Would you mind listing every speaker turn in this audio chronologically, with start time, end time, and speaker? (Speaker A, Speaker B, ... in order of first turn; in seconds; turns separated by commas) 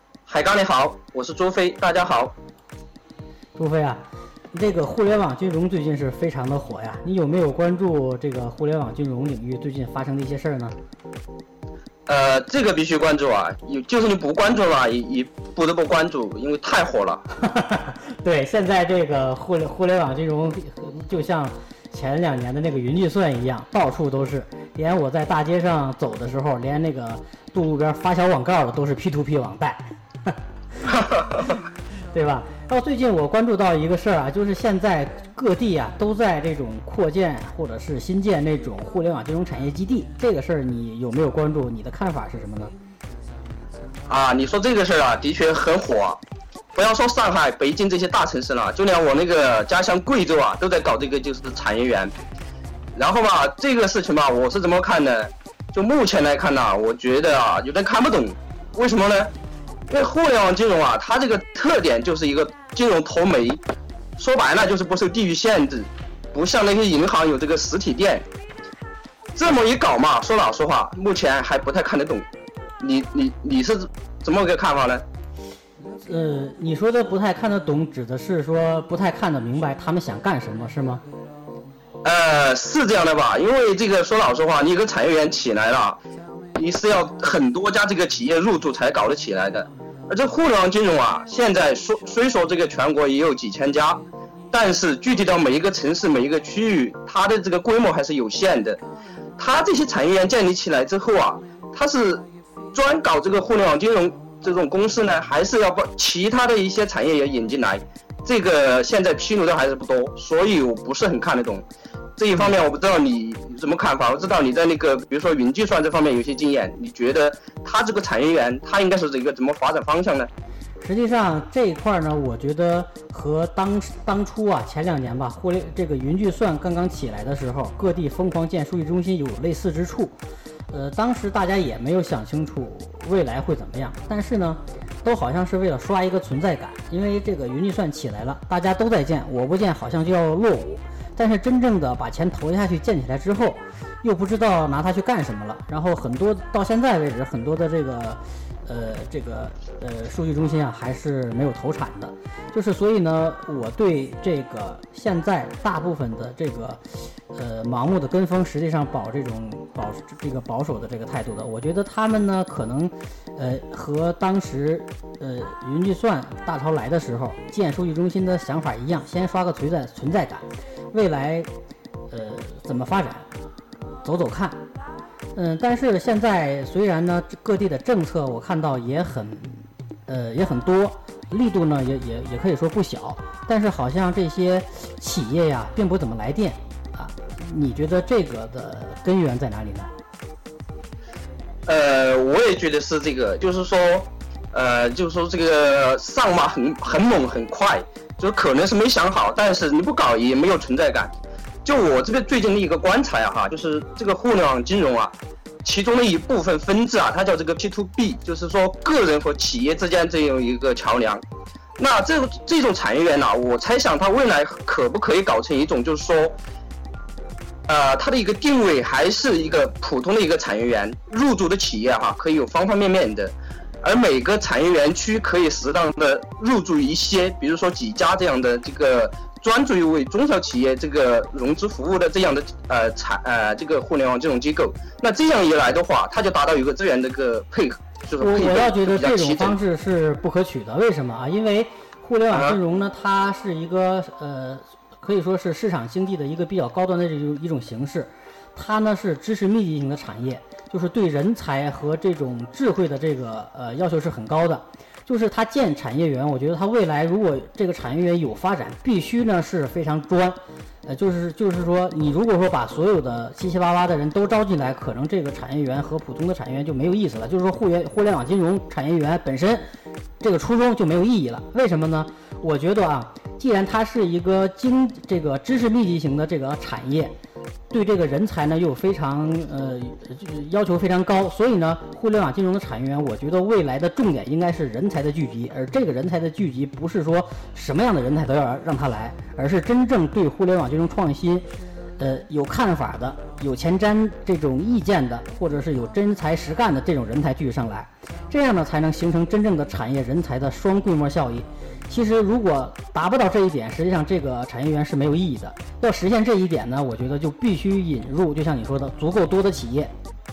Speaker A: 0.2-2.3, Speaker B: 3.5-4.0, Speaker B: 4.5-10.8, Speaker A: 12.1-17.2, Speaker B: 17.4-30.4, Speaker B: 32.1-42.7, Speaker A: 44.1-46.2, Speaker A: 46.7-52.1, Speaker A: 52.9-59.3, Speaker A: 59.9-63.6, Speaker A: 64.2-68.2, Speaker A: 69.3-72.3, Speaker A: 72.8-75.0, Speaker B: 76.0-81.0, Speaker A: 82.0-86.0, Speaker A: 86.5-98.8, Speaker A: 99.4-111.7, Speaker A: 112.2-120.3, Speaker B: 120.8-130.2, Speaker B: 130.7-171.5, Speaker B: 172.1-173.3, Speaker B: 174.0-174.6, Speaker B: 175.3-189.9, Speaker A: 191.7-211.2, Speaker A: 211.8-216.4, Speaker A: 217.7-239.6, Speaker B: 238.2-269.6, Speaker A: 242.3-242.6, Speaker B: 270.2-277.1, Speaker B: 277.7-291.4, Speaker B: 292.0-309.9